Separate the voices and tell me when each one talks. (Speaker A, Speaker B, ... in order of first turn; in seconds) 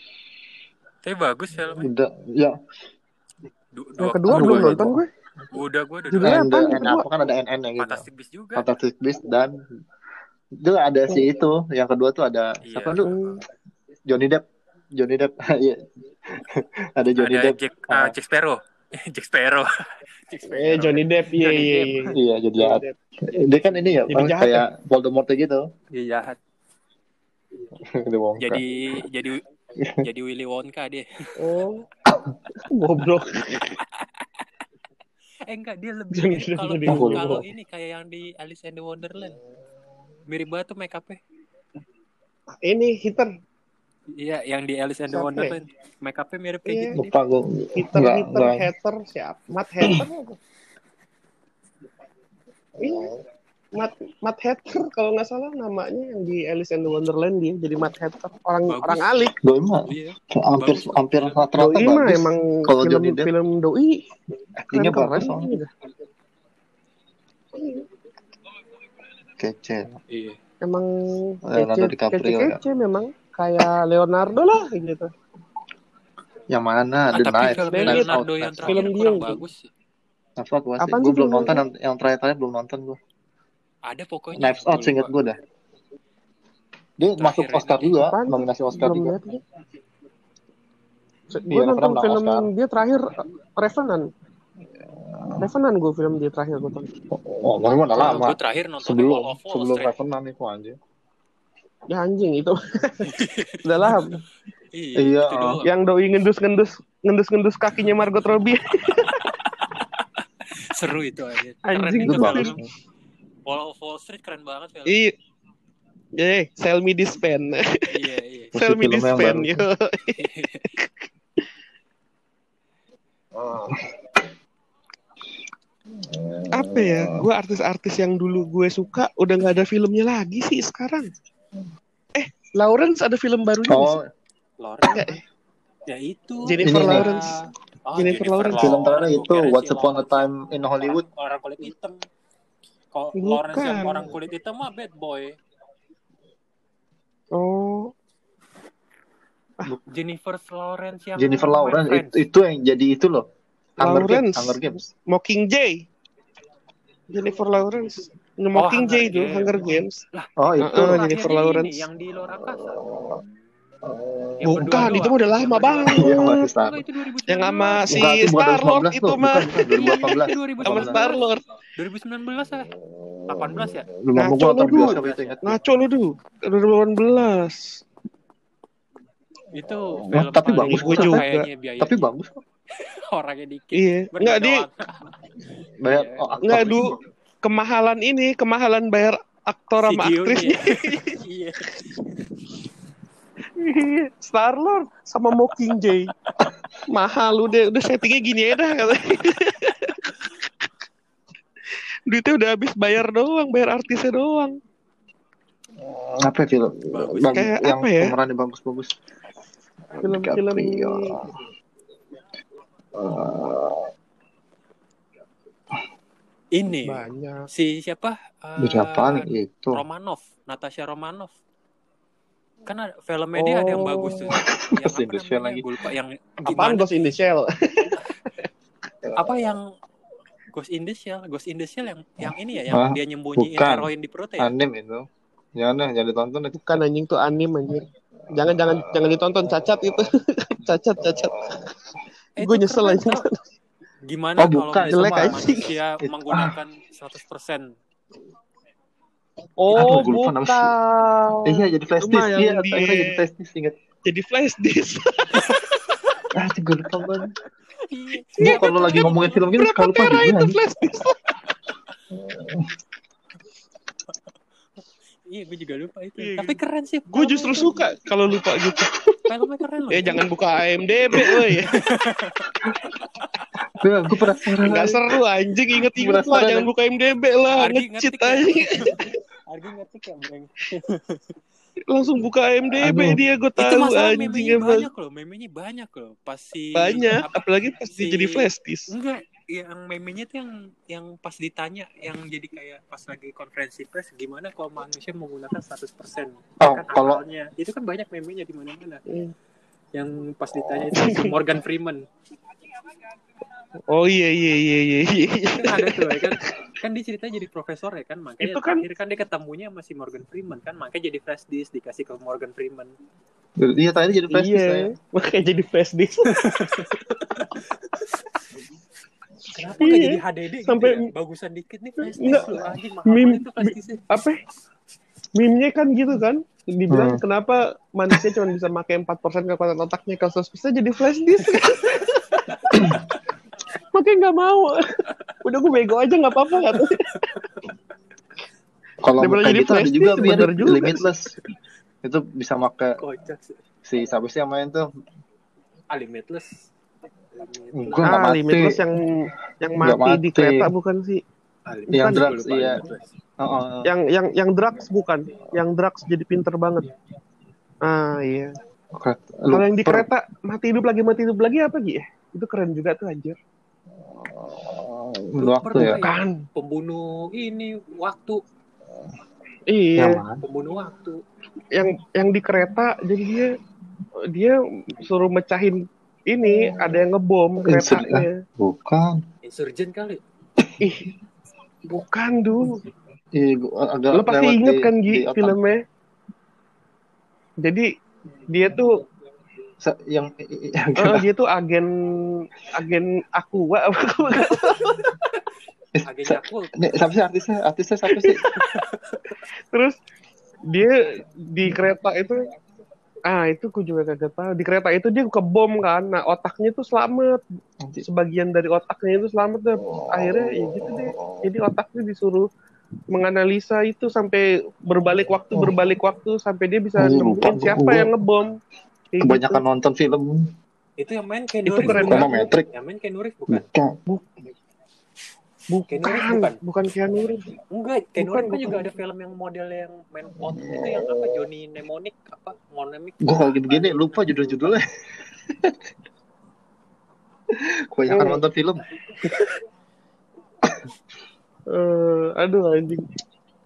Speaker A: 1.1-1.9, 3.7-4.9, 5.5-6.4, 7.8-8.7, 12.7-13.3, 17.2-19.7, 20.3-22.1, 25.9-26.4, 28.4-29.4, 30.0-31.4, 33.5-34.3, 35.5-39.4, 40.3-41.2, 44.2-47.1, 58.7-59.4, 59.9-61.4, 70.1-70.4, 77.1-79.7, 83.8-85.1, 87.2-88.0, 98.0-99.9, 103.0-103.9, 104.7-105.7, 109.1-109.8, 110.5-112.6, 113.5-115.0, 117.9-118.5, 120.2-120.7, 134.6-135.1, 135.9-140.3, 140.8-142.1, 142.9-145.4, 149.9-152.2, 158.6-162.9, 164.4-168.0, 169.7-171.2, 171.8-172.7, 173.3-173.9, 174.7-175.6, 179.5-182.0, 182.7-185.1, 185.8-186.7, 189.8-192.2, 206.9-207.5, 216.5-221.4, 222.7-226.9, 229.2-229.6, 230.5-234.5, 242.4-243.3, 244.1-247.8, 255.4-256.2, 257.9-259.5, 265.2-267.9, 269.2-270.3, 271.7-272.6, 277.5-281.4, 283.6-299.0, 299.9-302.1, 305.5-312.9, 316.3-318.2, 319.5-324.0, 343.0-343.6, 345.9-346.7, 347.4-348.3, 351.7-353.1, 365.4-368.4, 370.4-371.2, 379.4-380.2, 396.0-396.7, 398.6-399.3, 421.0-423.6, 425.9-426.6, 427.7-434.4
Speaker B: 1.7-2.6, 4.3-5.0, 6.2-8.1, 8.6-9.6, 10.6-13.2, 14.1-14.4, 14.9-18.1, 22.1-25.7, 27.8-28.6, 29.8-30.1, 36.9-37.4, 46.9-48.7, 59.4-63.3, 64.6-65.5, 69.4-70.0, 71.5-72.6, 76.5-78.8, 80.4-83.0, 84.3-85.4, 87.0-89.2, 91.5-92.5, 95.0-95.4, 97.1-100.8, 105.0-105.6, 112.0-112.7, 118.5-119.6, 123.3-123.9, 126.1-127.2, 133.7-134.1, 136.6-137.1, 138.6-141.1, 151.2-153.3, 153.8-154.9, 160.4-161.1, 162.6-163.2, 163.8-165.0, 165.9-166.8, 167.9-171.0, 172.9-175.6, 180.1-181.2, 181.8-182.3, 185.8-186.9, 205.8-209.0, 210.0-211.4, 212.9-213.9, 218.6-219.8, 224.3-225.9, 232.7-236.8, 238.4-240.0, 241.0-241.6, 244.4-245.5, 246.0-246.6, 249.7-250.7, 251.5-253.8, 256.3-257.4, 258.4-260.6, 262.1-262.7, 273.8-275.1, 275.9-276.7, 282.8-283.2, 296.6-297.2, 313.6-314.9, 326.9-327.2, 339.0-341.3, 342.0-343.0, 343.9-344.9, 347.7-348.8, 349.8-350.7, 351.9-352.8, 353.4-353.9, 358.9-360.1, 364.1-366.0, 370.0-370.4, 377.6-379.2, 383.3-385.6, 389.8-391.3, 395.9-398.6, 409.9-411.1, 417.0-418.1, 419.2-420.5, 421.8-422.7, 423.5-424.0, 430.5-431.3, 433.2-434.8, 435.5-435.8, 437.5-438.8
Speaker C: 4.0-5.1, 6.1-7.1, 13.1-13.4, 20.5-23.0, 24.1-24.7, 31.4-31.8, 32.7-33.7, 36.1-37.4, 42.6-43.3, 45.1-45.5, 46.6-47.0, 47.8-50.4, 52.8-53.1, 53.8-59.3, 61.6-64.1, 64.7-65.7, 70.6-75.1, 77.5-78.1, 78.7-79.4, 80.8-81.6, 88.0-89.4, 91.3-94.1, 95.4-96.9, 101.9-103.1, 103.6-104.2, 105.6-109.1, 111.7-112.6, 114.9-115.1, 116.2-117.9, 118.5-120.2, 120.8-121.1, 126.5-131.1, 132.2-134.0, 134.9-135.2, 136.5-137.4, 138.0-138.8, 143.2-144.1, 147.3-147.9, 153.8-155.9, 157.1-160.0, 160.6-161.8, 164.6-166.5, 167.3-170.1, 170.7-171.4, 174.2-177.8, 180.7-181.5, 183.7-184.7, 186.4-191.2, 193.6-196.1, 196.9-200.1, 202.1-204.6, 207.3-208.1, 210.0-211.2, 216.8-217.5, 223.4-224.3, 226.4-228.0, 236.5-241.6, 242.4-243.4, 244.9-245.7, 249.6-253.2, 254.1-255.7, 258.4-261.3, 266.2-266.6, 267.1-268.9, 269.9-271.8, 274.7-279.1, 281.9-284.9, 286.8-288.9, 299.1-299.3, 300.9-301.3, 303.9-306.3, 308.4-308.8, 314.3-316.3, 319.8-321.1, 322.0-324.4, 325.4-332.4, 333.9-337.1, 339.2-341.1, 348.1-351.2, 351.9-352.2, 353.9-356.9, 357.8-358.5, 359.5-363.4, 365.8-366.4, 369.7-370.2, 371.7-373.5, 374.3-378.4, 380.8-381.1, 381.9-382.8, 384.1-385.8, 387.6-387.9, 388.5-388.9, 391.0-395.1, 398.1-398.4, 399.7-400.0, 400.7-402.4, 403.3-407.4, 408.0-412.5, 413.1-418.6, 419.1-419.6, 421.7-422.5, 425.7-427.5, 428.2-428.9, 438.1-438.4, 441.7-443.1